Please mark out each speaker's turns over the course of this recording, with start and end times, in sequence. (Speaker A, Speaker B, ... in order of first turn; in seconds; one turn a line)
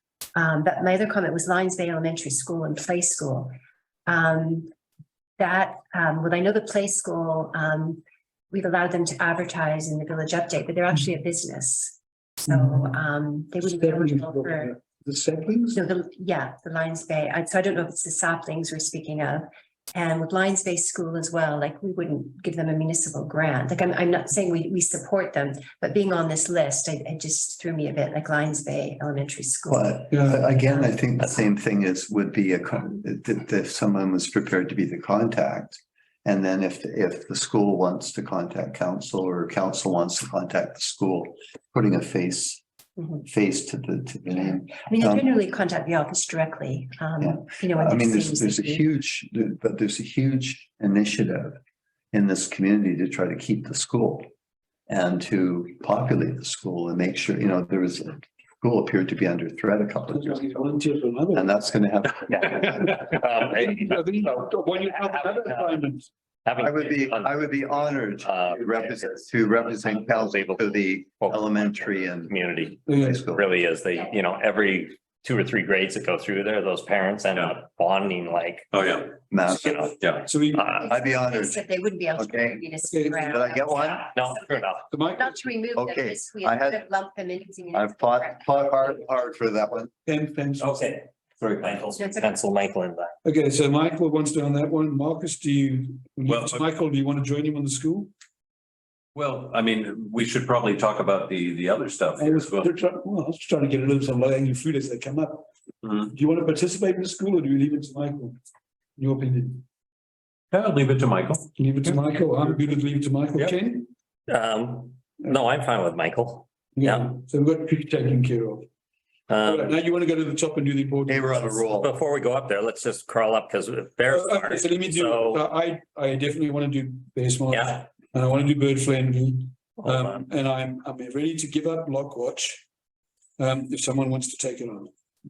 Speaker A: 0.3-3.5
Speaker A: 4.0-4.7
Speaker A: 5.4-14.7
Speaker B: 13.6-15.8
Speaker A: 15.7-30.9
Speaker C: 29.7-42.6
Speaker B: 30.1-30.4
Speaker C: 43.2-45.3
Speaker A: 44.4-48.8
Speaker C: 47.2-51.6
Speaker C: 52.1-54.3
Speaker C: 54.9-60.6
Speaker B: 60.1-61.5
Speaker C: 61.3-63.0
Speaker D: 62.3-64.0
Speaker B: 62.8-66.1
Speaker D: 64.9-65.8
Speaker D: 66.5-67.3
Speaker C: 66.6-72.3
Speaker D: 68.2-78.9
Speaker B: 72.9-73.2
Speaker C: 72.9-73.4
Speaker E: 78.7-79.2
Speaker C: 79.3-79.9
Speaker D: 79.4-80.0
Speaker E: 80.0-80.3
Speaker B: 80.2-80.8
Speaker A: 80.6-84.4
Speaker C: 80.7-81.6
Speaker C: 82.2-82.7
Speaker B: 82.8-83.3
Speaker C: 83.2-84.1
Speaker D: 84.1-84.9
Speaker B: 84.9-85.4
Speaker A: 85.2-89.0
Speaker C: 85.8-86.9
Speaker C: 87.7-89.9
Speaker B: 90.1-91.0
Speaker D: 90.6-93.1
Speaker E: 91.4-91.8
Speaker A: 92.0-92.4
Speaker B: 93.2-98.1
Speaker E: 96.2-96.6
Speaker E: 99.2-102.7
Speaker B: 102.2-105.5
Speaker B: 106.0-108.4
Speaker B: 109.0-109.7
Speaker E: 110.5-112.5
Speaker B: 111.6-113.9
Speaker D: 114.3-117.1
Speaker B: 116.8-118.7
Speaker D: 119.3-119.8
Speaker B: 119.4-121.7
Speaker C: 121.1-121.9
Speaker D: 121.8-125.4
Speaker B: 124.1-132.7
Speaker D: 127.5-127.8
Speaker D: 129.8-130.2
Speaker B: 133.4-134.9